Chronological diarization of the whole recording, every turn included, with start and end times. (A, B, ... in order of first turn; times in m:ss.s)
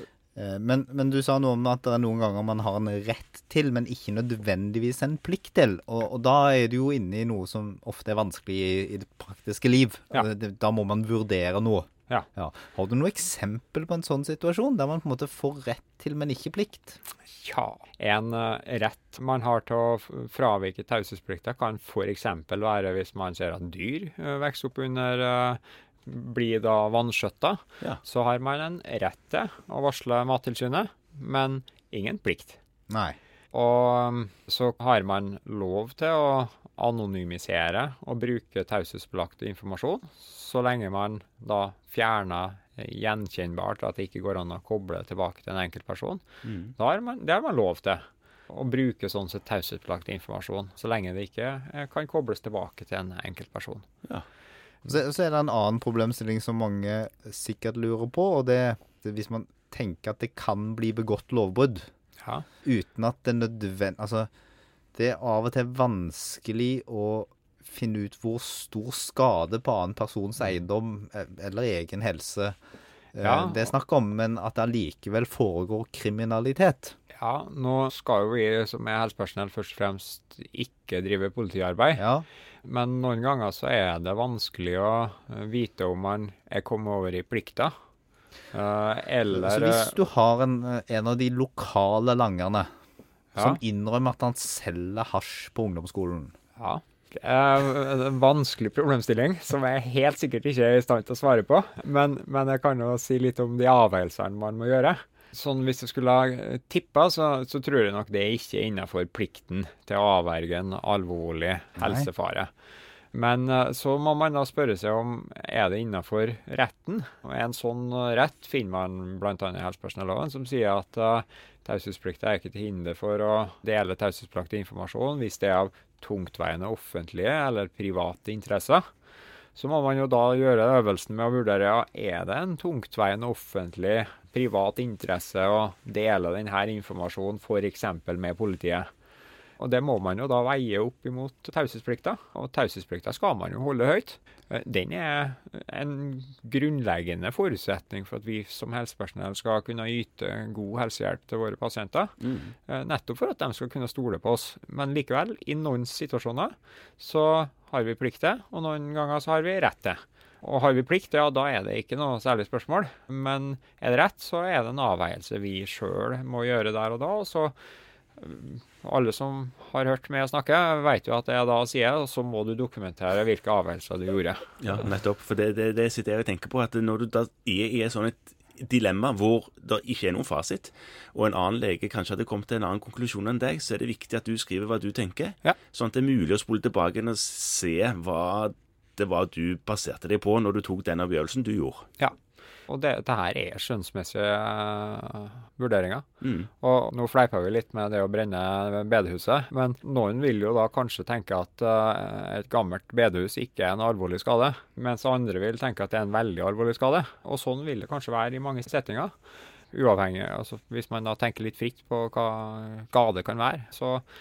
0:00.4-0:17.0 A
0:17.3-0:32.6 B
0:32.9-0:33.2 A
0:33.5-0:46.2 B
0:46.4-0:46.8 C
0:46.8-0:53.9 B
0:54.9-1:01.9 A
1:02.6-1:04.3 A
1:04.9-1:12.6 A
1:13.1-1:17.0 A
1:13.2-1:13.7 B
1:17.2-1:22.1 B
1:22.0-1:22.2 A
1:22.6-1:27.7 B
1:28.5-1:30.0 B
1:29.3-1:32.7 A
1:33.4-1:33.6 B
1:33.4-1:36.3 A
1:36.6-1:52.5 B
1:51.8-1:52.1 A
1:53.1-2:08.8 B
2:09.6-2:18.9 B
2:19.6-2:32.2 B
2:32.2-2:32.5 C
2:32.7-2:47.5 B
2:48.2-2:54.8 B
2:54.6-3:11.9 C
3:12.7-3:16.1 B
3:16.2-3:16.5 C
3:16.6-3:29.1 B
3:29.7-3:34.0 B